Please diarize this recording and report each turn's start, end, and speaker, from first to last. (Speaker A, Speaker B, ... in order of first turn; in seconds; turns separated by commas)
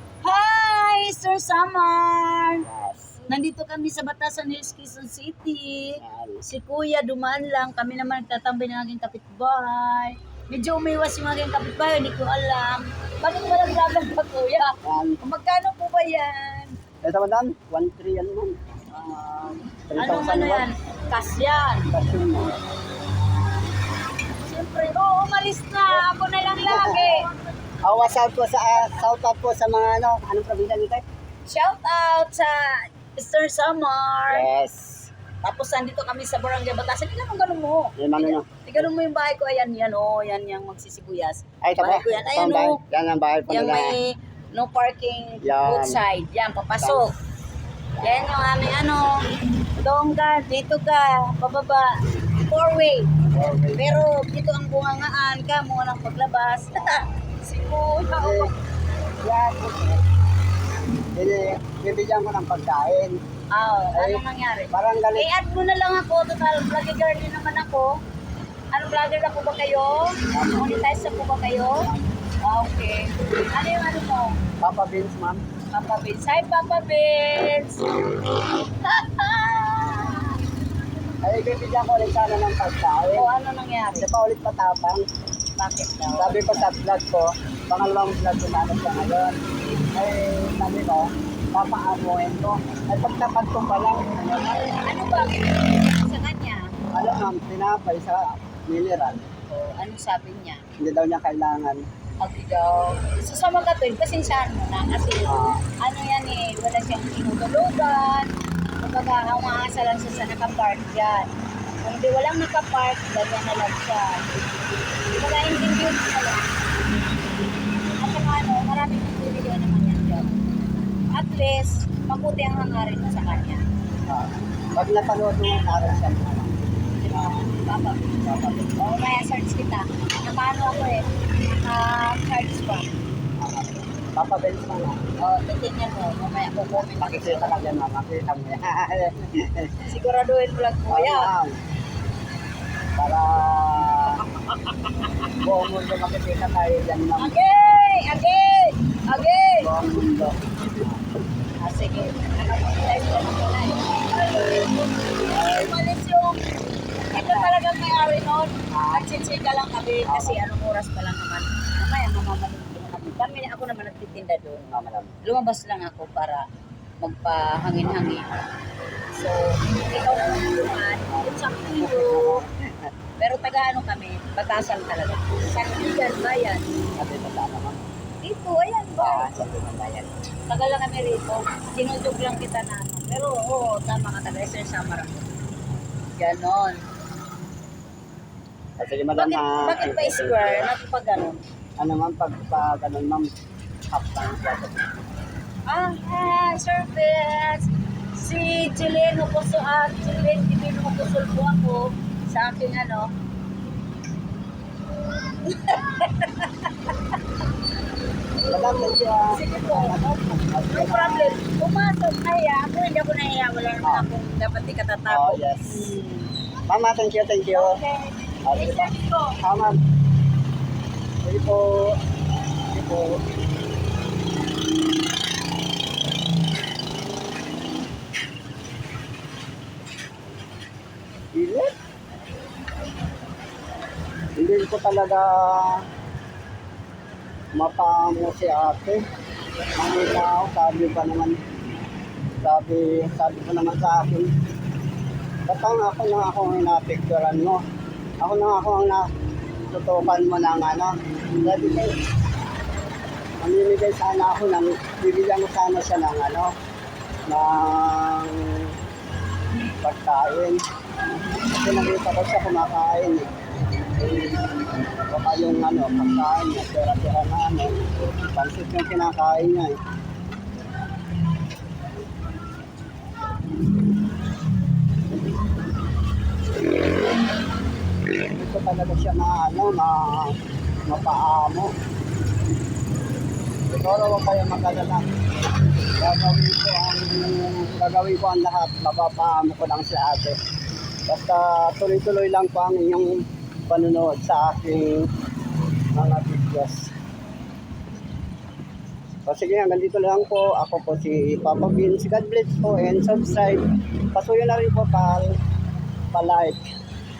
Speaker A: 0.2-2.7, Speaker B: 2.6-3.2, Speaker A: 3.3-16.8, Speaker B: 6.0-6.5, Speaker B: 14.8-15.2, Speaker B: 17.0-20.7, Speaker A: 19.9-21.9, Speaker B: 21.9-22.6, Speaker A: 24.3-27.3, Speaker B: 26.7-27.2, Speaker B: 27.8-31.1, Speaker A: 31.5-34.5, Speaker B: 34.3-35.1, Speaker A: 35.4-42.8, Speaker B: 38.0-38.6, Speaker B: 41.6-44.0, Speaker A: 43.5-47.1, Speaker B: 45.4-46.0, Speaker B: 46.8-47.1, Speaker B: 48.0-48.2, Speaker A: 48.0-58.5, Speaker B: 53.3-53.8, Speaker B: 58.2-58.5, Speaker B: 59.2-60.0, Speaker B: 61.1-63.2, Speaker A: 63.5-68.0, Speaker B: 63.9-65.3, Speaker A: 68.7-71.9, Speaker B: 70.3-70.7, Speaker A: 72.4-74.4, Speaker B: 74.6-75.4, Speaker A: 75.7-80.4, Speaker B: 81.2-83.3, Speaker A: 83.1-84.1, Speaker B: 84.0-85.0, Speaker A: 85.6-86.7, Speaker B: 86.2-89.4, Speaker B: 89.9-94.8, Speaker A: 94.8-96.7, Speaker B: 96.9-99.3, Speaker A: 99.5-100.7, Speaker B: 100.8-101.9, Speaker A: 102.2-111.3, Speaker B: 105.2-105.6, Speaker A: 111.8-114.4, Speaker A: 115.0-116.6, Speaker A: 117.8-120.5, Speaker A: 121.1-123.6, Speaker B: 124.1-126.6, Speaker A: 127.0-132.9, Speaker B: 127.1-127.4, Speaker B: 133.4-135.0, Speaker A: 135.2-137.6, Speaker B: 136.9-139.8, Speaker A: 139.8-141.3, Speaker B: 140.9-141.6, Speaker B: 143.0-144.3, Speaker A: 144.5-145.1, Speaker B: 145.4-147.3, Speaker A: 147.2-149.7, Speaker B: 149.6-151.0, Speaker A: 151.6-156.4, Speaker B: 155.3-155.7, Speaker B: 157.0-157.5, Speaker A: 157.1-164.7, Speaker B: 158.7-159.1, Speaker B: 160.1-160.4, Speaker B: 164.7-165.2, Speaker A: 165.2-166.5, Speaker A: 167.0-168.3, Speaker A: 169.1-172.4, Speaker B: 171.1-172.9, Speaker A: 173.2-176.7, Speaker B: 177.0-177.8, Speaker A: 178.2-179.4, Speaker B: 179.0-180.1, Speaker A: 180.5-185.3, Speaker A: 186.2-186.8, Speaker B: 188.8-190.7, Speaker A: 189.2-191.4, Speaker B: 191.8-193.3, Speaker B: 193.9-194.9, Speaker A: 195.7-203.1, Speaker A: 205.4-206.9, Speaker B: 208.4-211.4, Speaker A: 209.3-210.0, Speaker A: 210.7-216.3, Speaker B: 213.8-214.1, Speaker B: 215.1-216.0, Speaker B: 216.7-217.8, Speaker A: 217.5-219.4, Speaker B: 218.4-219.8, Speaker B: 221.2-222.0, Speaker B: 222.7-223.2, Speaker B: 231.3-231.7, Speaker B: 234.4-235.9, Speaker B: 237.6-239.0, Speaker B: 239.8-241.4, Speaker B: 242.4-244.3, Speaker B: 245.5-247.6, Speaker B: 248.2-249.1, Speaker B: 249.7-252.0, Speaker B: 253.4-256.5, Speaker B: 257.3-258.8, Speaker B: 259.8-260.6, Speaker B: 261.5-263.3, Speaker B: 264.0-264.4, Speaker B: 265.1-267.8, Speaker B: 268.3-269.8, Speaker B: 278.2-281.7, Speaker B: 283.7-285.1, Speaker B: 285.8-290.4, Speaker B: 291.1-293.1, Speaker B: 293.7-295.1, Speaker B: 295.9-296.9, Speaker B: 299.3-305.4, Speaker B: 306.1-306.7